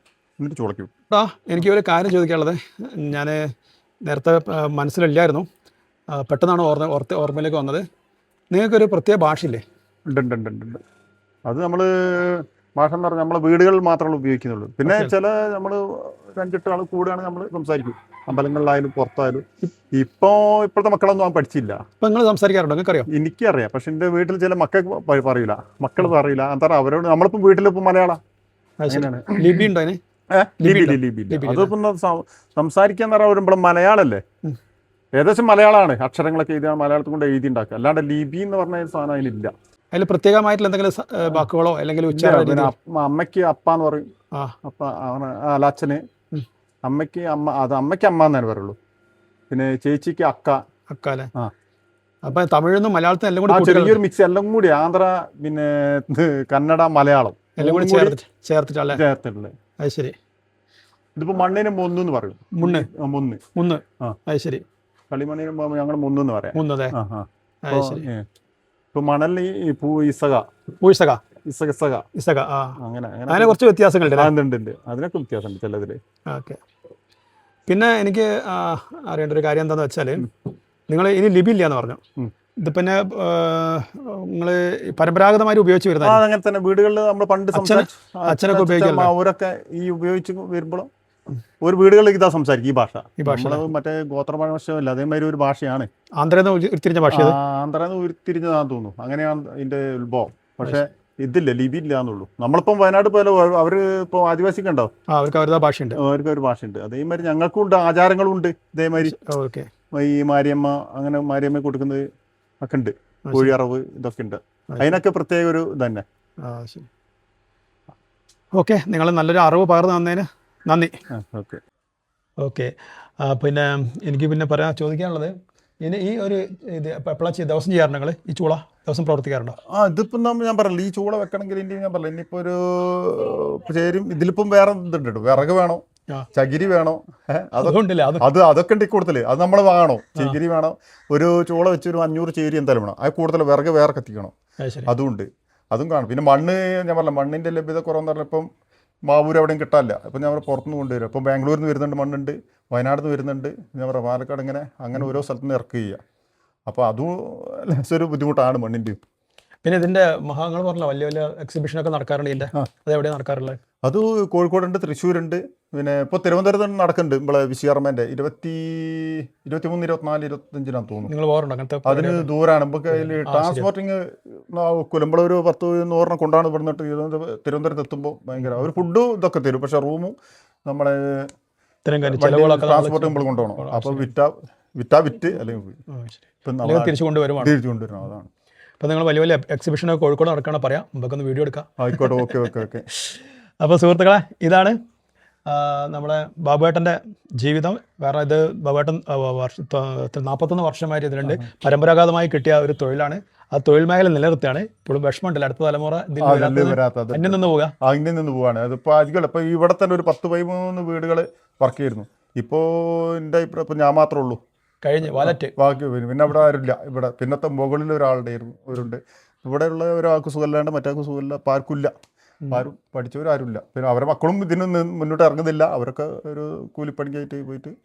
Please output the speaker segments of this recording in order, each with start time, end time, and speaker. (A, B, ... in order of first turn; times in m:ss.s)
0:00.4-0:00.9 A
0:01.1-0:03.5 B
0:04.1-0:05.5 B
0:06.1-0:07.8 B
0:08.5-0:09.6 B
0:10.1-0:10.8 A
0:11.5-0:21.8 A
0:14.9-0:15.1 B
0:22.0-0:23.1 B
0:23.1-0:28.2 A
0:28.8-0:30.0 B
0:28.9-0:29.7 A
0:30.4-0:34.2 A
0:30.6-0:31.7 B
0:35.2-0:39.5 A
0:39.9-0:42.7 B
0:42.1-0:44.1 A
0:44.6-0:46.0 A
0:46.9-0:48.8 A
0:49.5-0:50.6 A
0:50.9-0:51.3 B
0:52.2-0:54.0 B
0:53.5-0:58.2 A
0:57.6-0:59.0 B
0:58.9-0:59.5 A
0:59.8-1:00.2 B
1:01.2-1:03.4 A
1:02.6-1:02.9 B
1:03.6-1:04.6 B
1:05.1-1:08.3 A
1:06.6-1:07.0 B
1:07.7-1:08.1 B
1:08.9-1:10.4 A
1:10.8-1:11.2 B
1:11.5-1:12.1 A
1:12.2-1:12.8 B
1:12.8-1:16.0 A
1:13.3-1:14.3 B
1:16.3-1:16.6 B
1:17.7-1:20.3 B
1:20.9-1:22.0 B
1:22.6-1:26.2 B
1:26.0-1:30.9 A
1:27.5-1:29.1 B
1:31.6-1:35.9 A
1:33.2-1:33.6 B
1:36.2-1:37.4 B
1:37.1-1:44.9 A
1:45.1-1:46.0 B
1:46.0-1:49.2 A
1:49.0-1:49.7 B
1:49.9-1:52.0 A
1:52.6-1:56.0 A
1:53.3-1:53.5 B
1:54.7-1:55.0 B
1:56.4-1:56.9 B
1:58.6-2:00.9 B
2:01.1-2:01.6 A
2:02.4-2:09.6 B
2:09.7-2:15.8 A
2:16.3-2:24.3 A
2:17.6-2:18.3 B
2:24.6-2:24.9 B
2:24.9-2:28.5 A
2:29.1-2:36.0 A
2:36.7-2:39.0 A
2:39.6-2:43.6 B
2:43.8-2:51.1 A
2:51.1-2:52.3 B
2:51.8-3:00.2 A
2:53.1-2:53.7 B
3:00.7-3:01.3 A
3:01.9-3:04.1 B
3:02.0-3:05.8 A
3:05.9-3:07.5 B
3:06.5-3:08.3 A
3:08.8-3:14.8 B
3:11.8-3:12.8 A
3:15.5-3:27.7 B
3:26.2-3:34.4 A
3:34.8-3:35.5 B
3:35.0-3:41.9 A
3:42.5-3:47.8 A